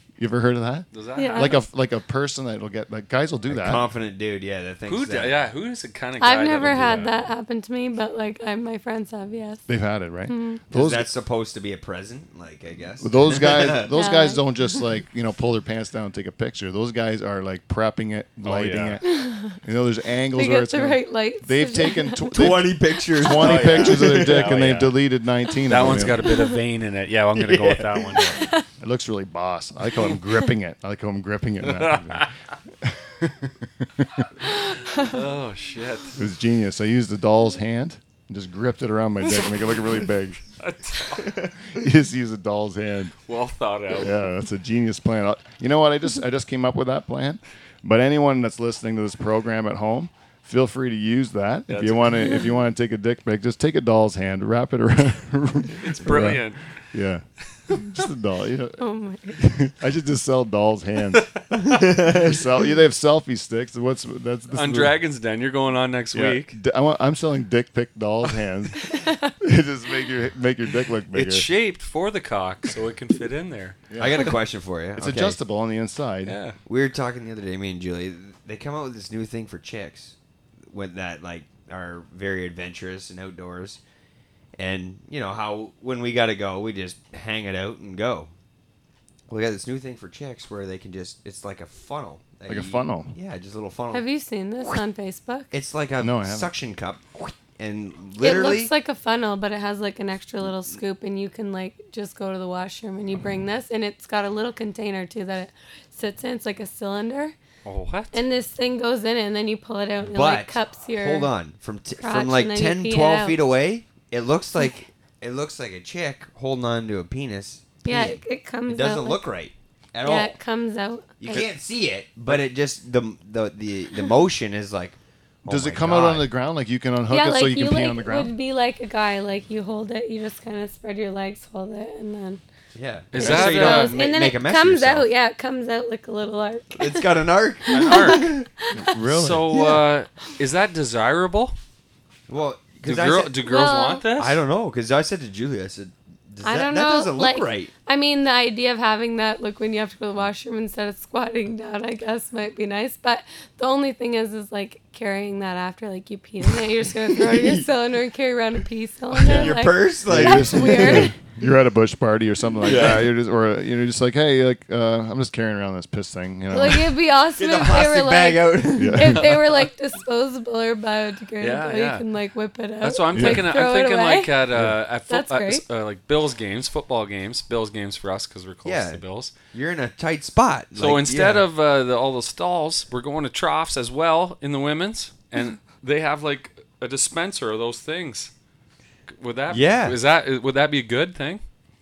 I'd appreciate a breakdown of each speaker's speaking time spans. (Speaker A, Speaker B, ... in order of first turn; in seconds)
Speaker A: 0.2-3.9, 6.7-7.1, 9.7-11.1, 13.0-26.3, 28.7-32.3, 32.8-34.3, 36.2-40.4, 41.7-43.1, 43.9-58.8, 59.4-61.3, 62.0-65.0, 66.1-68.8, 69.4-71.5, 73.9-74.3, 75.0-76.4, 92.5-93.1, 96.0-96.5, 125.5-128.3, 138.8-139.6, 159.3-166.9, 168.8-169.2, 173.1-173.4, 174.5-174.8
Speaker B: 0.9-1.6, 4.9-7.1, 18.4-19.0, 23.3-24.9, 25.7-28.5, 31.6-32.3, 34.9-36.2, 40.6-41.4, 43.3-44.3, 51.7-52.4, 55.8-56.8, 61.2-61.8, 64.5-66.6, 71.1-73.8, 76.2-76.6, 107.7-108.2, 133.1-134.0, 137.7-138.3, 139.0-141.6, 142.8-144.4, 162.6-163.1, 171.4-172.0, 172.8-179.3, 180.8-188.3, 189.2-191.4
Speaker C: 1.2-1.6, 6.2-9.7, 10.3-10.6, 13.9-14.4, 19.1-19.6, 20.3-22.4, 26.3-26.5, 28.3-28.6, 34.7-35.1, 58.8-59.4, 68.8-69.3, 93.9-95.5, 98.2-107.4, 108.1-111.3, 112.0-113.4, 117.8-119.2, 120.0-121.5, 127.1-132.4, 133.2-137.1, 137.7-138.9, 143.4-144.1, 146.4-161.2, 166.5-174.3, 175.1-175.6
Speaker D: 3.5-5.4, 10.7-13.9, 22.3-24.6, 27.4-28.4, 61.6-62.2, 74.0-75.4, 76.7-80.2, 80.7-83.8, 84.6-88.3, 89.3-94.0, 95.5-98.7, 110.0-120.3, 121.2-126.3, 132.8-135.1, 136.7-138.5, 139.5-139.8, 142.3-143.3, 144.2-147.7, 156.5-157.7, 159.1-161.1, 162.6-163.1, 167.4-169.5, 178.7-181.5, 189.5-190.0